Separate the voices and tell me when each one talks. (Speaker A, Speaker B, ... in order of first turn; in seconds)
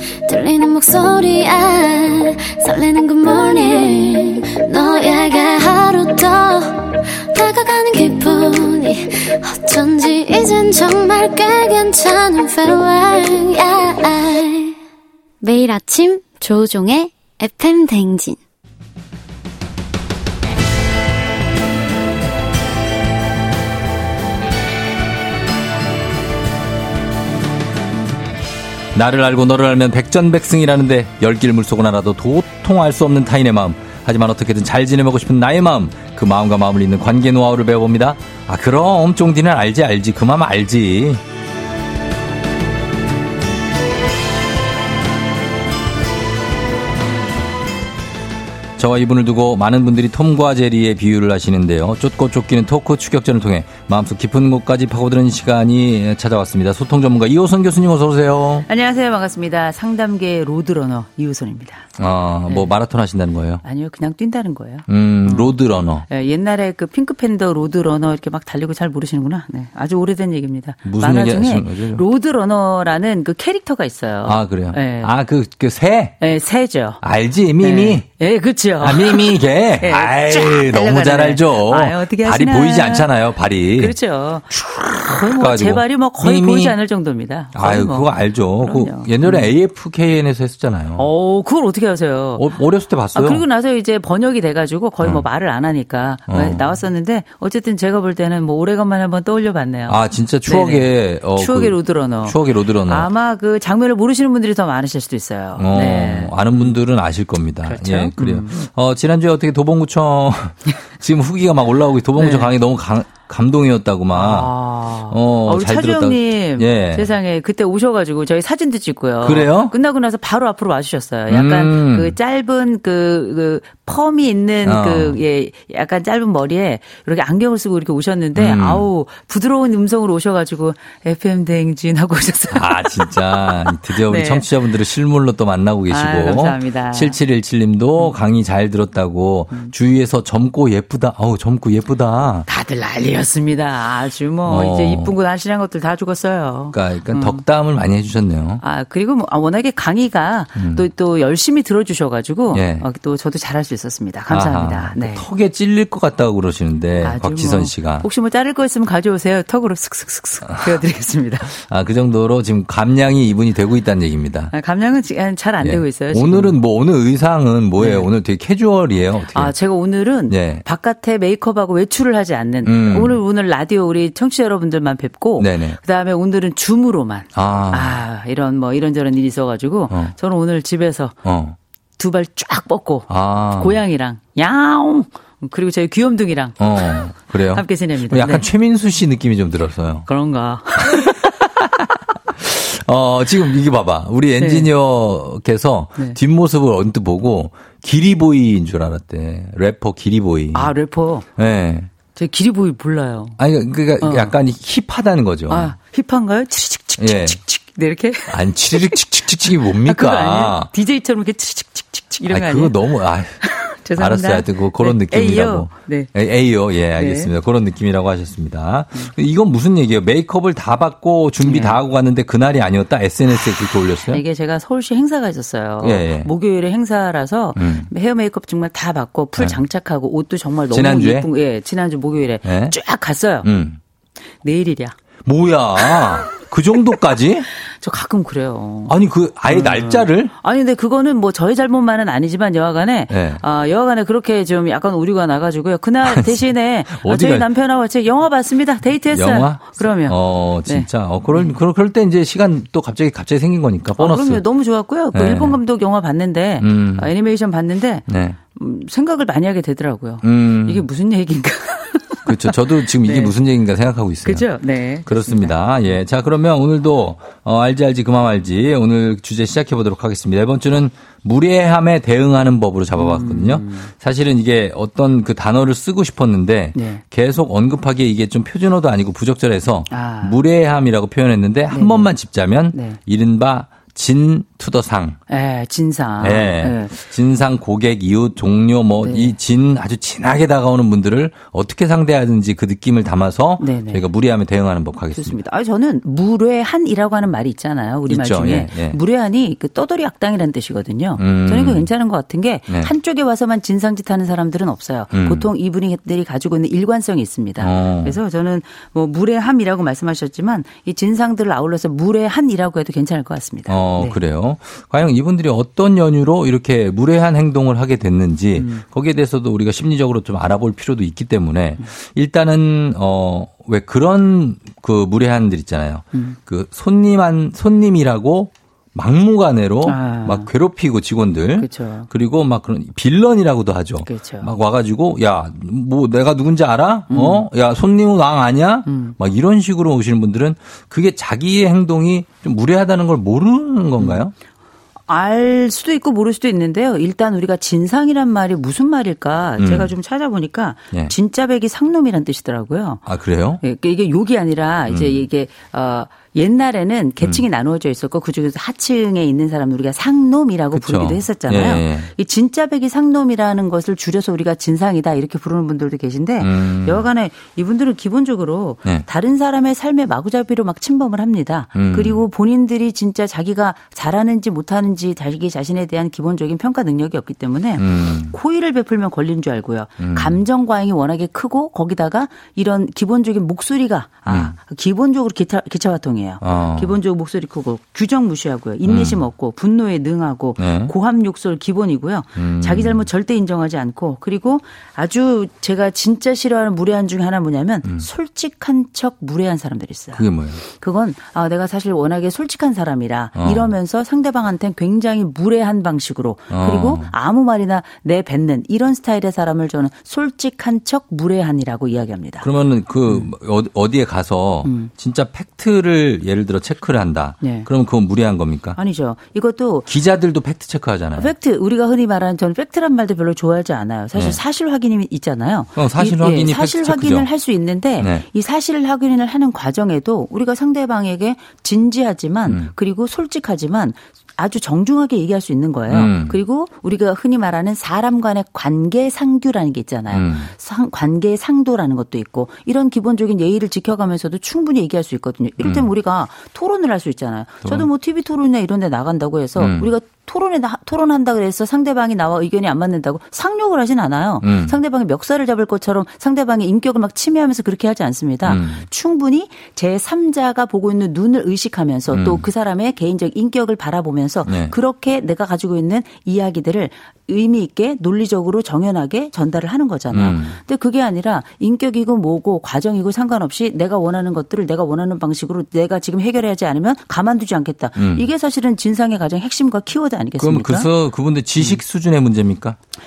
Speaker A: 0.3-14.8, 15.4-18.4
Speaker B: 28.9-41.2, 48.8-58.6, 62.0-63.6, 64.9-66.1, 70.8-72.0, 74.2-76.2, 77.0-78.1, 78.8-84.0, 84.5-86.8, 87.5-91.1, 92.4-93.4, 96.3-96.8, 99.9-103.1, 105.6-114.5, 115.1-117.1, 119.2-119.7, 121.3-122.2, 124.6-125.2, 128.3-128.9, 132.5-142.5, 144.5-145.1, 146.7-148.6, 150.6-150.8, 152.5-152.9, 154.3-158.1, 161.5-164.5, 165.6-169.5, 170.3-170.7, 172.7-173.2, 175.4-175.8, 177.3-178.0, 181.2-181.6, 183.1-183.8, 186.6-190.1, 190.8-191.2, 192.4-200.7, 201.4-201.9, 203.4-205.7, 207.0-207.4, 208.3-210.7, 212.3-213.4, 214.0-224.2, 225.8-226.3, 227.6-227.9, 230.7-231.3, 232.4-232.8, 233.4-233.8, 235.2-237.5, 238.9-240.3, 243.1-243.4, 246.0-247.5, 249.1-254.4, 255.1-255.6, 256.6-257.1, 258.1-258.4, 260.2-260.9, 262.3-264.5, 265.1-285.2, 286.2-295.4, 298.1-299.0, 301.2-301.9, 305.1-305.5, 307.6-308.2, 313.7-344.3, 349.6-349.9, 353.1-353.6, 354.9-355.2, 360.7-362.1, 366.4-367.1, 371.8-372.2, 377.8-378.4, 380.0-380.4, 384.3-384.6, 386.4-386.9, 388.8-389.2, 390.6-390.9, 392.4-393.1, 400.1-400.6, 403.4-403.7, 406.5-407.1, 412.4-418.8, 419.9-421.3, 425.8-427.3, 428.0-428.2, 435.9-436.4, 440.1-440.5, 445.6-445.9, 449.6-449.9, 454.4-454.8, 458.4-458.9, 462.1-462.4, 464.5-464.8, 470.1-470.6, 478.0-478.3, 480.4-482.8
Speaker C: 58.7-61.9, 63.6-75.1, 76.2-77.0, 77.6-83.1, 83.8-89.5, 91.0-92.5, 93.1-106.8, 107.7-108.6, 112.2-112.5, 114.1-134.5, 135.9-137.2, 142.5-147.4, 148.6-155.3, 157.0-161.6, 164.5-166.6, 167.8-168.1, 169.3-181.2, 182.0-188.5, 190.1-191.9, 194.4-194.7, 200.5-201.3, 202.1-203.4, 204.0-204.3, 205.5-212.9, 213.4-216.1, 216.9-217.3, 221.4-221.8, 223.3-233.5, 234.4-235.0, 235.8-236.3, 237.7-238.9, 239.5-251.5, 254.0-263.3, 264.2-265.5, 273.0-273.9, 276.7-277.0, 279.9-280.4, 281.7-282.1, 282.7-283.0, 285.3-287.0, 289.0-289.4, 293.6-294.0, 295.1-314.2, 318.6-318.8, 329.9-330.5, 331.6-332.1, 334.0-334.5, 337.1-337.5, 338.9-339.1, 344.0-344.3, 345.1-353.0, 353.6-412.5, 414.6-414.9, 417.4-417.7, 418.8-419.9, 421.2-480.9